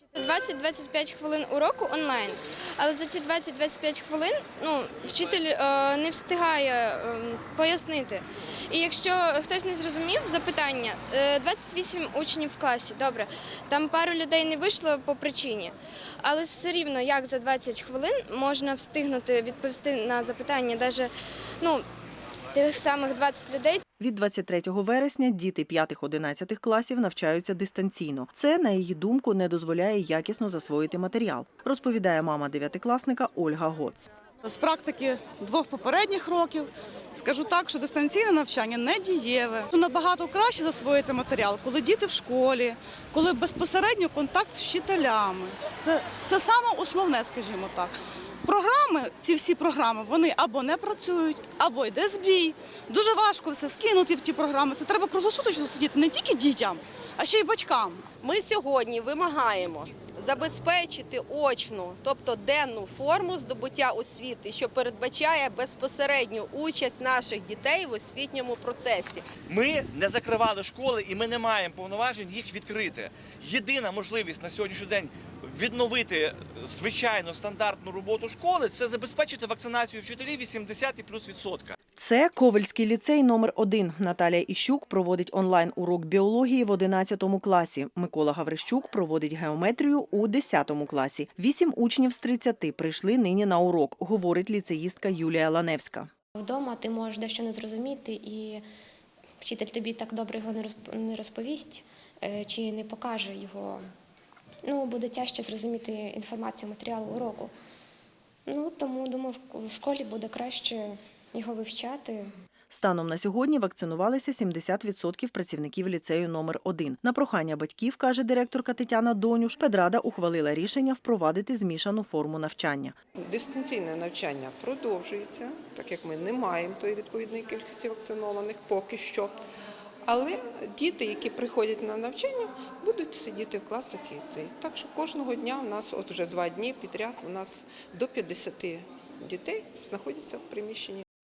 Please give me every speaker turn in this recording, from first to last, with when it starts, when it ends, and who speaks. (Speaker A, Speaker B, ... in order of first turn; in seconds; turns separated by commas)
Speaker A: 0.2-21.1, Speaker A: 22.6-23.8, Speaker B: 24.0-34.1, Speaker C: 34.4-47.9, Speaker C: 48.4-58.0, Speaker D: 58.2-69.3, Speaker E: 69.5-81.8, Speaker B: 82.0-96.1, Speaker F: 96.4-98.6, Speaker F: 99.4-103.8, Speaker F: 104.7-107.5, Speaker F: 108.5-112.3, Speaker B: 112.7-123.0, Speaker G: 123.3-129.4, Speaker G: 130.1-141.0